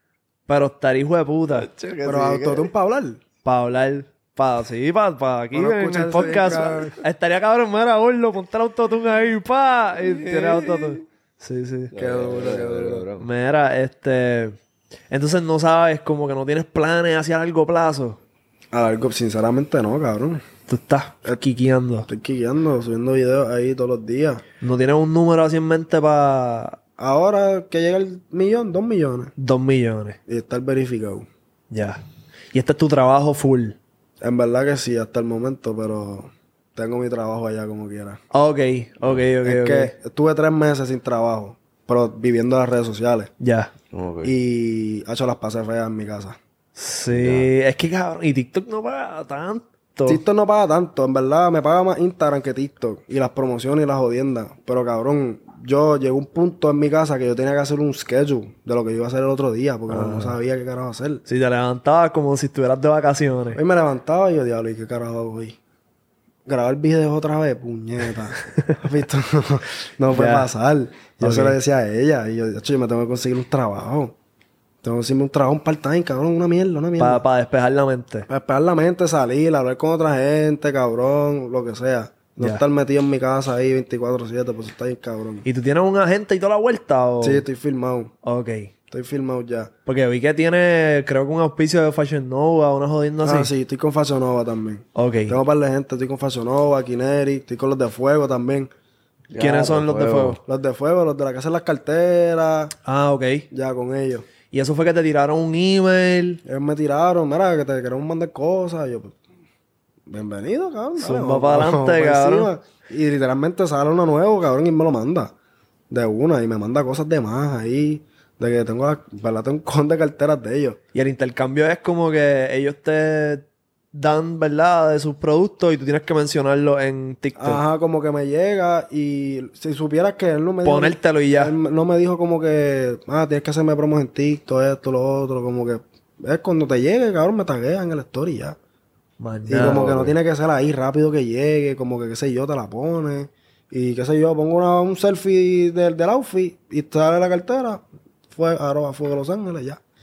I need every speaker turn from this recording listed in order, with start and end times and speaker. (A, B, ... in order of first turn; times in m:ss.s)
0:00.5-0:01.7 A
0:01.5-0:02.7 B
0:02.0-0:03.2 C
0:03.4-0:11.9 A
0:05.5-0:07.0 C
0:10.1-0:11.0 B
0:11.9-0:13.3 B
0:11.9-0:13.0 C
0:13.2-0:14.6 A
0:15.1-0:18.2 A
0:18.7-0:20.4 C
0:20.7-0:22.1 A
0:22.1-0:24.4 C
0:24.6-0:26.8 A
0:27.0-0:29.3 C
0:29.4-0:30.2 A
0:30.3-0:31.3 C
0:31.7-0:32.0 A
0:32.5-0:33.8 A
0:34.2-0:38.2 C
0:38.3-0:39.9 A
0:39.4-0:43.3 C
0:43.4-0:43.7 A
0:43.9-0:44.3 B
0:44.2-0:46.4 C
0:46.8-0:50.2 A
0:47.1-0:47.5 B
0:50.0-1:01.2 C
0:59.9-1:00.4 A
1:01.2-1:03.6 A
1:03.5-1:05.6 C
1:06.4-1:14.1 C
1:08.5-1:08.8 A
1:10.1-1:10.5 A
1:11.2-1:11.6 A
1:14.8-1:17.2 C
1:17.0-1:18.3 A
1:18.3-1:25.4 C
1:25.4-1:27.4 A
1:27.2-1:28.1 C
1:28.2-1:28.7 A
1:28.9-1:29.7 C
1:29.8-1:33.5 A
1:33.2-1:38.7 C
1:34.9-1:35.4 A
1:39.3-1:40.4 B
1:39.4-1:40.4 A
1:40.4-1:42.7 C
1:42.8-1:43.5 A
1:43.5-1:44.2 C
1:44.5-1:46.4 A
1:46.4-1:49.2 C
1:50.1-1:55.3 C
1:51.0-1:52.5 A
1:55.9-2:00.8 C
2:00.9-2:07.6 A
2:07.4-2:18.6 C
2:10.6-2:11.5 A
2:19.2-2:19.8 A
2:19.5-2:29.8 C
2:19.6-2:20.1 B